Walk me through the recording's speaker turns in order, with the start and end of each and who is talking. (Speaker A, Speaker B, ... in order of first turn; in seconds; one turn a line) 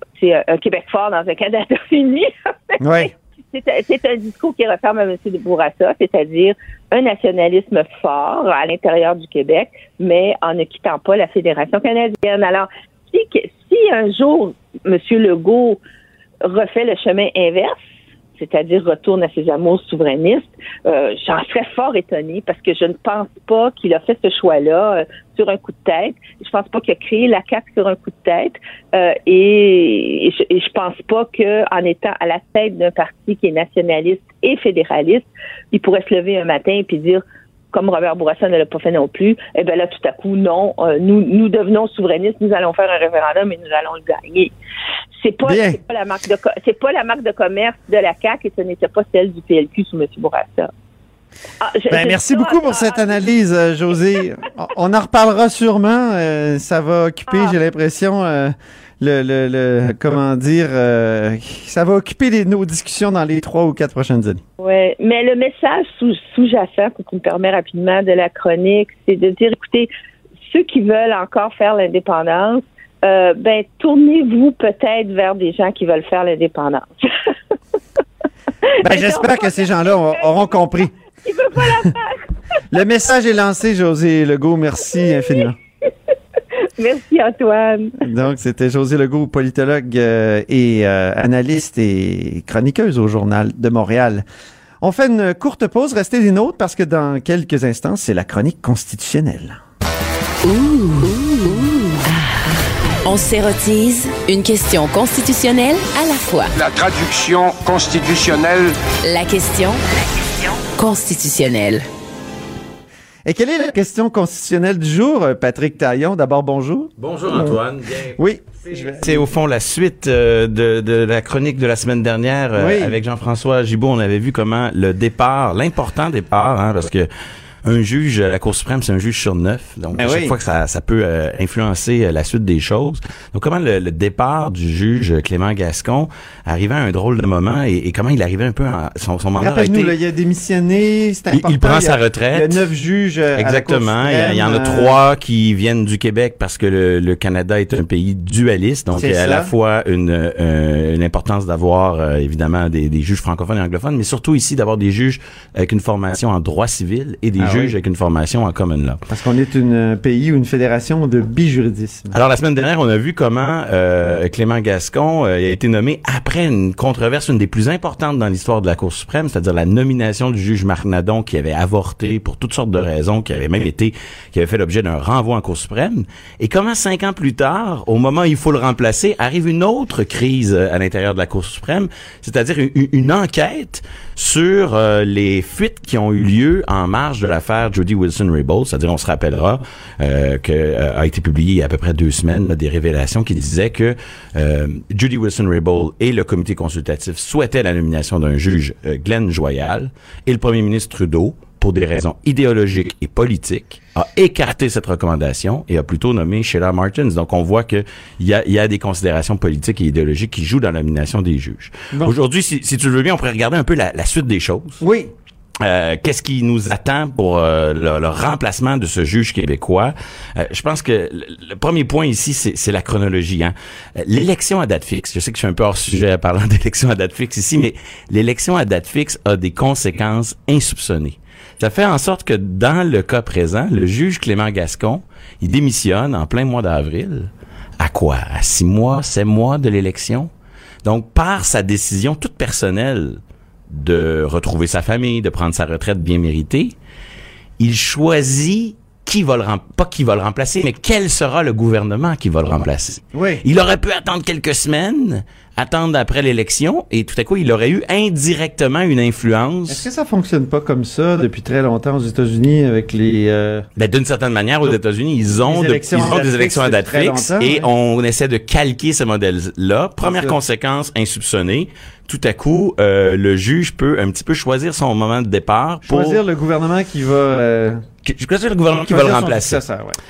Speaker A: 0.1-15.8
Speaker B: 2.8-3.1
Speaker A: 16.4-17.8
Speaker A: 18.4-44.5
Speaker A: 45.2-50.7
Speaker B: 45.4-45.8
Speaker A: 51.6-53.2
Speaker B: 51.9-64.4
Speaker A: 57.3-57.5
Speaker A: 64.6-69.9
Speaker A: 70.5-77.0
Speaker A: 78.8-82.2
Speaker B: 78.8-80.9
Speaker B: 81.6-81.9
Speaker B: 82.7-85.5
Speaker A: 85.0-85.5
Speaker A: 86.8-88.0
Speaker B: 88.0-94.2
Speaker B: 94.8-99.6
Speaker C: 100.4-106.5
Speaker D: 106.6-108.7
Speaker C: 109.0-109.8
Speaker C: 110.8-111.8
Speaker B: 113.2-117.6
Speaker E: 117.0-127.1
Speaker B: 118.2-119.3
Speaker B: 122.5-123.0
Speaker E: 127.6-139.9
Speaker B: 130.0-130.3
Speaker B: 139.4-145.0
Speaker E: 141.3-142.7
Speaker E: 143.3-159.0
Speaker B: 148.9-149.5
Speaker B: 157.4-157.7
Speaker B: 159.1-162.1
Speaker E: 162.1-214.8
Speaker B: 214.8-215.1
Speaker E: 215.6-240.3
Speaker E: 240.8-243.2
Speaker E: 243.7-246.7
Speaker E: 247.6-259.9
Speaker B: 253.1-253.4
Speaker B: 259.7-263.6
Speaker E: 263.8-276.2
Speaker B: 265.4-267.7
Speaker B: 270.0-270.4
Speaker B: 275.9-277.8
Speaker E: 278.0-279.6
Speaker B: 278.8-279.9